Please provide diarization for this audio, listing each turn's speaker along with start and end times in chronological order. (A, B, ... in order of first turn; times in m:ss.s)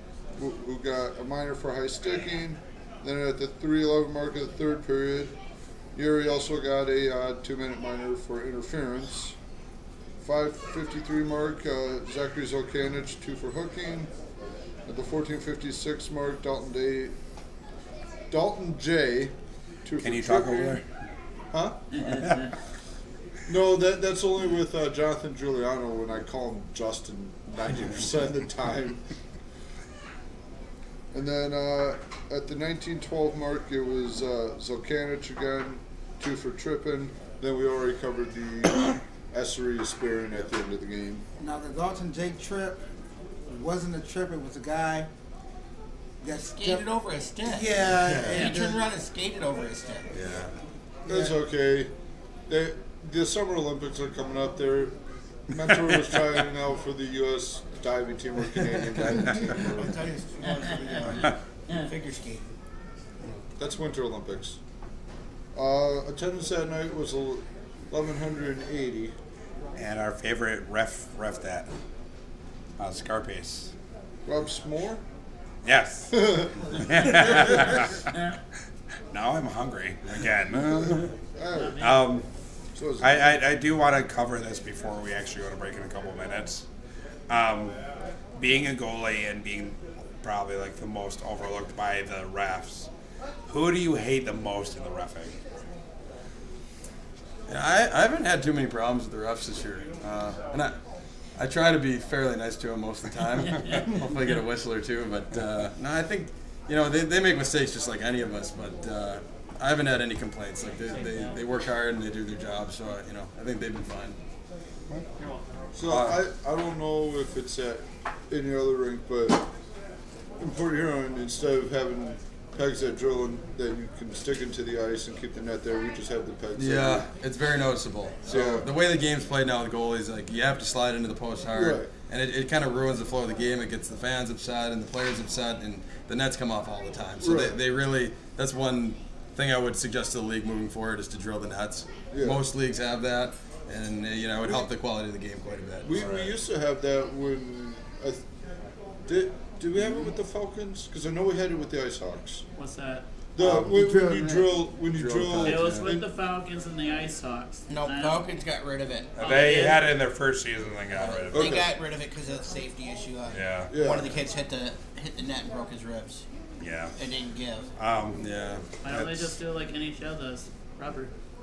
0:00.4-0:05.3 A
0:05.9-0:09.4 A
0:10.2-0:14.1 A
0:14.8-0:17.1 A
0:18.3-0:20.8 A
0:20.0-0:20.8 B
0:21.5-0:21.9 A
0:21.9-0:22.5 C
0:22.1-0:22.5 B
0:23.5-0:29.0 A
0:31.1-0:41.2 A
0:41.4-0:42.8 D
0:43.5-0:45.1 D
0:46.2-0:46.9 D
0:46.5-0:50.1 E
0:47.4-0:48.8 D
0:47.9-0:48.4 F
0:50.1-0:50.5 F
0:51.1-0:51.9 A
0:52.5-0:54.9 A
0:55.5-1:00.0 A
0:59.5-1:02.5 E
1:03.6-1:04.6 A
1:05.5-1:09.1 A
1:09.8-1:11.7 B
1:12.8-1:13.7 B
1:14.2-1:15.0 A
1:15.6-1:18.1 B
1:16.1-1:17.2 A
1:19.1-1:21.1 B
1:21.4-1:21.9 A
1:21.5-1:22.0 C
1:21.8-1:22.3 B
1:22.7-1:23.4 A
1:23.0-1:26.6 B
1:27.3-1:27.7 B
1:28.4-1:32.9 B
1:33.5-1:35.4 B
1:37.5-1:40.8 F
1:41.4-1:54.2 F
1:50.9-1:51.4 C
1:55.7-1:59.5 A
2:00.4-2:07.1 A
2:06.6-2:26.0 F
2:08.2-2:08.7 A
2:11.5-2:11.9 A
2:17.2-2:17.6 A
2:22.1-2:22.4 A
2:25.8-2:28.2 A
2:26.0-2:26.3 B
2:29.1-2:32.4 A
2:32.6-2:33.0 C
2:33.4-2:36.1 A
2:33.4-2:34.5 D
2:34.9-2:35.9 F
2:35.4-2:38.2 C
2:37.7-2:39.4 E
2:39.2-2:39.9 C
2:39.2-2:41.5 B
2:41.3-2:46.2 E
2:41.3-2:41.7 A
2:43.3-2:43.7 B
2:43.7-2:44.1 A
2:46.6-2:46.9 B
2:47.0-2:47.7 E
2:47.8-2:48.2 B
2:48.2-2:48.6 F
2:48.8-2:51.1 C
2:48.9-2:49.4 B